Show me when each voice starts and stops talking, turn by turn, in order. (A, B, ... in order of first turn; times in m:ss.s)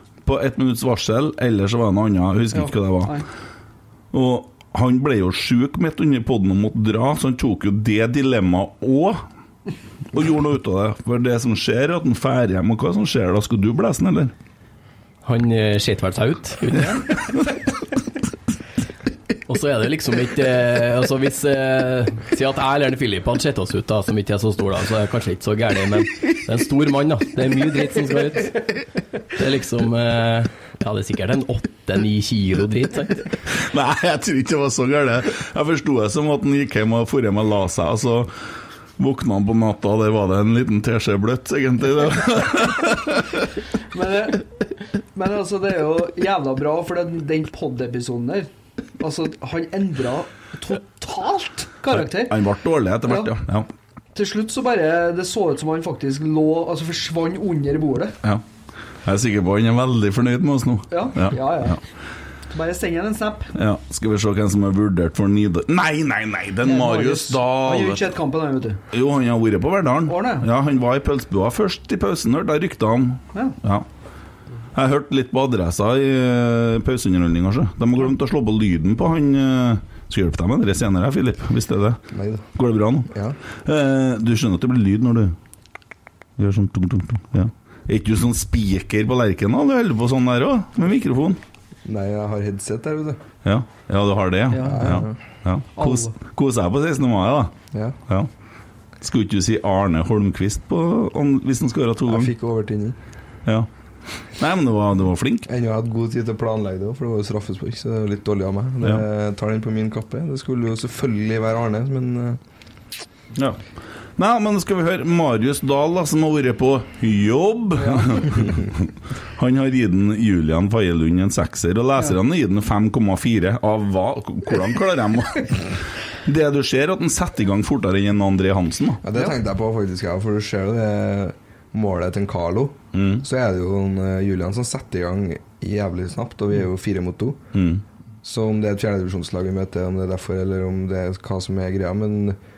0:00.2-0:03.2 A
0:02.5-0:03.2 B
0:04.1-0:09.2 A
0:10.1-0:14.3 A
0:15.2-0:17.4 C
0:19.5-0:33.2 C
0:33.4-0:38.3 A
0:39.0-0:43.5 A
0:43.9-0:44.4 B
0:45.1-0:52.4 B
0:51.9-0:53.7 A
0:54.1-0:58.2 B
0:59.0-1:01.8 A
1:00.9-1:01.8 B
1:02.5-1:03.5 B
1:03.5-1:08.1 A
1:06.6-1:08.8 B
1:08.9-1:13.8 A
1:10.1-1:10.5 B
1:14.7-1:22.0 A
1:22.1-1:22.4 D
1:22.5-1:23.1 A
1:23.1-1:23.4 D
1:23.6-1:25.3 A
1:26.4-1:31.4 A
1:31.8-1:33.2 D
1:33.4-1:37.5 A
1:34.5-1:35.0 B
1:34.6-1:35.2 D
1:35.8-1:36.1 B
1:37.7-1:38.0 D
1:39.0-1:42.3 A
1:42.1-1:43.0 D
1:44.2-1:45.5 A
1:45.5-1:52.4 D
1:53.3-1:53.6 A
1:54.2-2:09.0 A
1:57.8-1:58.3 B
2:09.0-2:17.4 D
2:12.9-2:13.2 A
2:17.5-2:17.8 A
2:18.2-2:22.4 D